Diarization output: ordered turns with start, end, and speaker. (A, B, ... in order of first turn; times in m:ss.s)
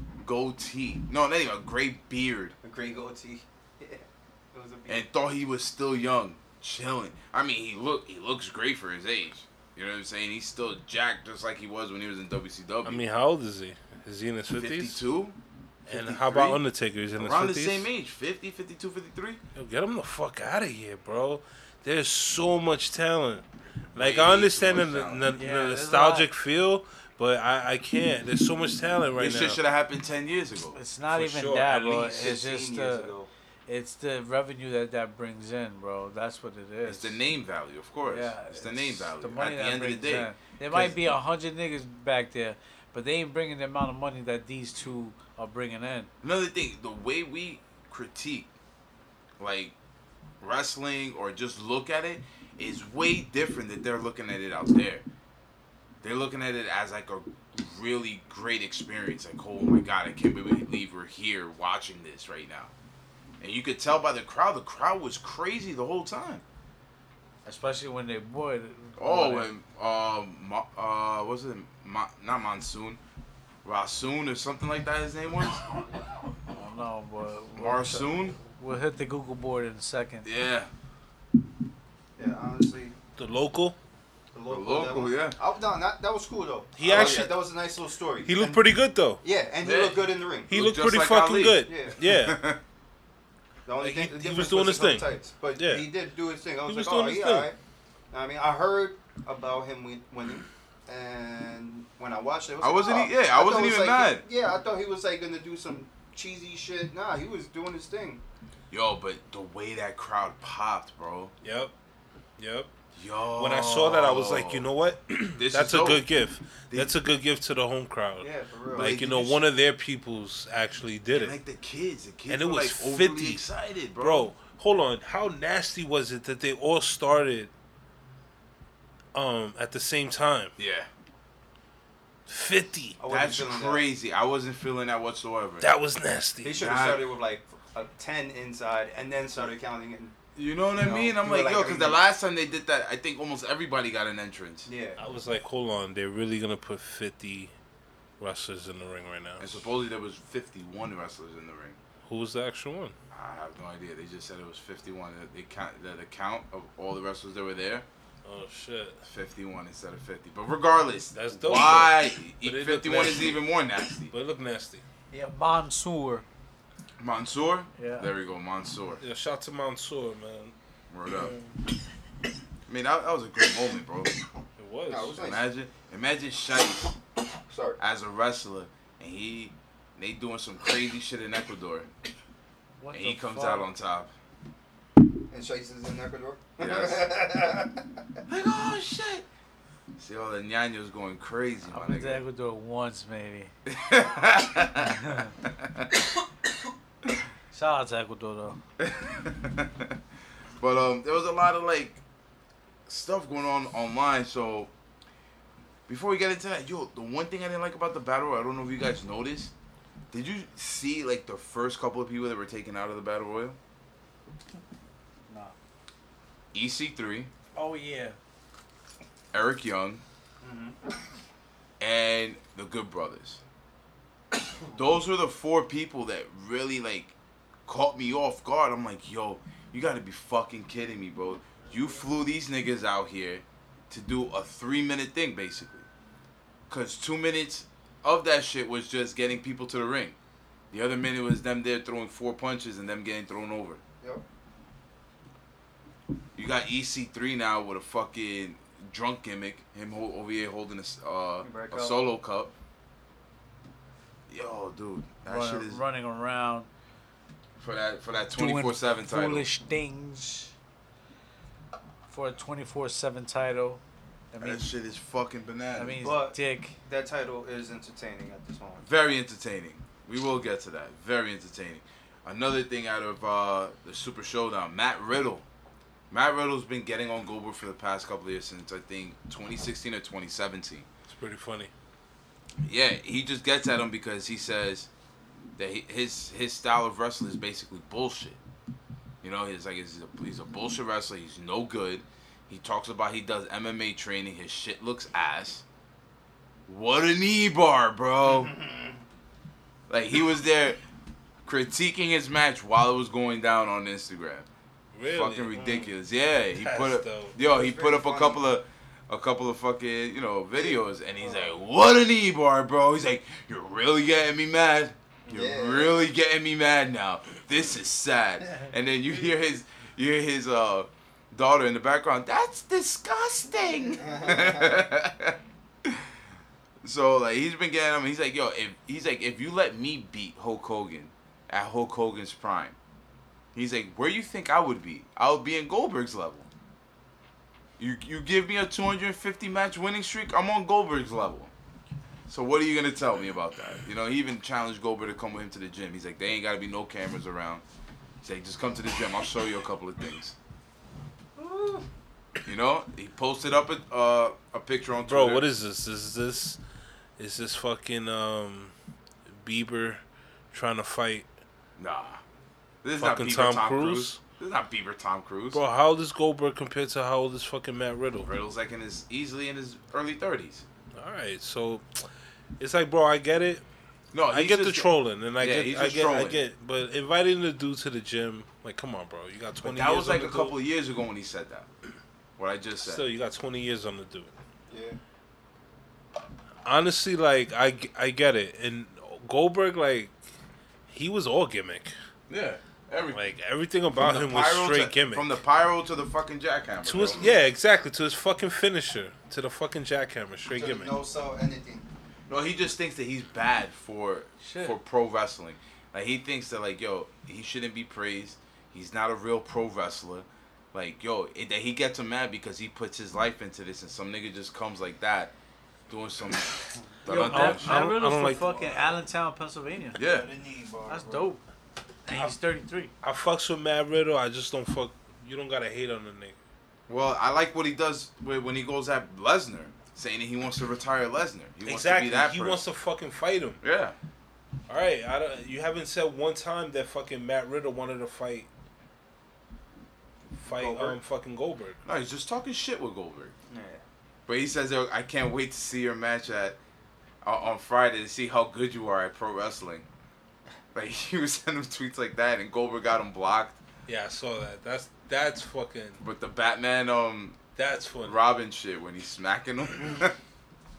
0:00.2-0:02.5 A
0:02.6-0:05.0 B
0:04.9-0:13.0 A
0:12.8-0:15.0 C
0:14.5-0:16.6 A
0:15.9-0:17.9 C
0:17.2-0:19.4 A
0:19.5-0:29.6 C
0:23.9-0:25.3 A
0:25.3-0:26.3 D
0:29.2-0:30.8 A
0:30.7-0:33.1 D
0:31.1-0:32.1 C
0:32.0-0:33.3 B
0:33.7-0:37.2 D
0:36.8-0:41.0 A
0:38.0-0:46.1 D
0:46.2-0:48.5 A
0:49.4-0:49.7 A
0:50.4-0:55.0 A
0:56.0-1:02.7 A
1:03.4-1:06.4 A
1:07.4-1:09.5 D
1:09.0-1:13.0 A
1:13.6-1:15.6 A
1:16.5-1:20.3 D
1:17.6-1:18.4 A
1:20.2-1:20.7 A
1:22.2-1:22.9 B
1:23.2-1:23.8 C
1:24.3-1:28.6 B
1:24.5-1:25.4 A
1:26.8-1:27.4 C
1:26.8-1:27.3 A
1:28.2-1:29.2 C
1:29.2-1:30.5 B
1:29.6-1:32.6 A
1:30.5-1:32.4 C
1:31.6-1:32.0 B
1:33.6-1:37.6 B
1:33.8-1:35.9 C
1:36.6-1:37.5 C
1:38.1-1:48.2 B
1:42.6-1:44.2 A
1:48.7-1:51.3 A
1:51.4-1:51.7 C
1:52.4-1:52.7 C
1:52.9-1:54.7 A
1:53.4-2:01.4 C
1:55.4-1:56.1 A
1:58.2-1:59.0 B
1:58.7-1:59.4 A
2:01.1-2:04.3 A
2:02.3-2:03.4 C
2:04.0-2:07.5 C
2:09.1-2:10.5 C
2:10.6-2:10.9 A
2:12.3-2:13.0 C
2:13.0-2:13.8 B
2:13.0-2:15.7 A
2:15.6-2:16.7 C
2:16.4-2:20.1 B
2:16.6-2:17.0 A
2:20.4-2:24.7 A
2:20.8-2:22.0 B
2:24.6-2:25.0 B
2:25.0-2:27.5 C
2:28.2-2:29.6 C
2:29.4-2:31.8 A
2:32.1-2:32.9 C
2:33.1-2:37.8 A
2:38.2-2:39.0 C
2:39.0-2:44.1 A
2:41.1-2:43.4 C
2:44.1-2:44.8 C
2:45.1-2:46.2 D
2:47.0-2:49.0 A
2:47.8-2:48.1 D
2:49.0-2:50.5 C
2:50.9-2:51.3 A
2:51.1-2:51.5 C
2:52.7-2:54.2 A
2:54.6-2:55.2 C
2:54.9-2:55.4 B
2:55.1-2:57.0 A
2:57.5-2:57.8 B
2:57.8-3:01.9 A
3:02.8-3:03.7 D
3:02.9-3:04.1 A
3:05.3-3:07.8 B
3:06.6-3:07.1 A
3:08.3-3:09.2 A
3:10.0-3:12.2 A
3:11.7-3:13.5 D
3:13.6-3:15.9 A
3:14.8-3:15.3 D
3:17.5-3:18.6 D
3:18.8-3:20.0 A
3:20.6-3:22.0 A
3:22.9-3:24.7 A
3:25.9-3:29.5 A
3:30.1-3:33.6 A
3:35.3-3:35.5 D
3:36.5-3:37.3 A
3:37.5-3:38.2 D
3:39.3-3:40.0 A
3:40.4-3:40.8 B
3:41.8-3:43.4 A
3:44.7-3:47.1 A
3:47.7-3:55.8 A
3:56.7-4:00.2 A
4:00.7-4:03.8 A
4:06.3-4:12.5 A
4:11.4-4:12.0 B
4:14.3-4:15.8 A
4:15.2-4:16.7 D
4:17.6-4:19.5 A
4:18.3-4:20.5 D
4:22.1-4:23.8 D
4:24.3-4:24.7 D
4:24.4-4:26.2 A
4:25.7-4:26.8 D
4:26.0-4:28.8 B
4:28.8-4:35.4 A
4:36.1-4:40.9 A
4:41.1-4:41.7 C
4:42.6-4:44.9 A
4:45.6-4:48.4 A
4:49.2-4:55.6 A
4:56.7-4:58.5 A
4:58.2-4:59.0 B
4:59.9-5:00.8 A
5:01.4-5:04.5 A
5:04.9-5:05.8 C
5:05.0-5:26.1 A
5:06.5-5:07.3 C
5:07.4-5:08.4 B
5:10.6-5:11.5 B
5:15.3-5:16.1 B
5:24.0-5:24.7 B
5:26.8-5:32.8 A
5:33.5-5:36.5 A
5:37.8-5:41.5 A
5:42.3-5:47.6 A
5:48.2-5:50.3 A
5:51.4-5:51.8 B
5:52.4-5:55.4 A
5:55.0-5:56.6 C
5:57.2-5:58.7 C
5:59.4-6:01.3 C
6:01.8-6:02.2 A
6:02.8-6:05.6 A
6:03.0-6:04.2 C
6:05.5-6:08.3 C
6:08.2-6:10.6 A
6:10.9-6:12.0 C
6:12.6-6:13.6 C
6:14.1-6:16.4 A
6:14.3-6:20.5 C
6:19.6-6:21.7 A
6:22.4-6:23.0 A
6:22.8-6:24.3 C
6:24.7-6:25.0 B
6:26.6-6:30.1 C
6:30.9-6:31.9 C
6:32.3-6:33.2 A
6:33.1-6:35.3 C
6:33.9-6:37.4 A
6:36.8-6:41.0 C
6:40.5-6:41.8 B
6:42.3-6:55.3 A
6:44.4-6:44.8 D
6:55.9-6:57.9 A
6:57.0-7:00.0 D
6:57.1-6:58.6 C
7:00.0-7:00.3 A
7:00.0-7:01.3 B
7:00.9-7:01.4 D
7:02.0-7:02.9 D
7:03.0-7:06.4 C
7:06.9-7:12.6 A
7:11.6-7:13.6 C
7:13.6-7:14.0 A
7:14.7-7:18.5 C
7:20.4-7:21.8 C
7:20.5-7:21.0 B
7:21.8-7:23.3 A
7:23.5-7:23.8 B
7:24.3-7:26.6 A
7:27.2-7:29.9 A
7:30.7-7:33.6 A
7:33.8-7:36.0 C
7:36.0-7:37.4 A
7:37.6-7:38.2 C
7:38.0-7:40.1 A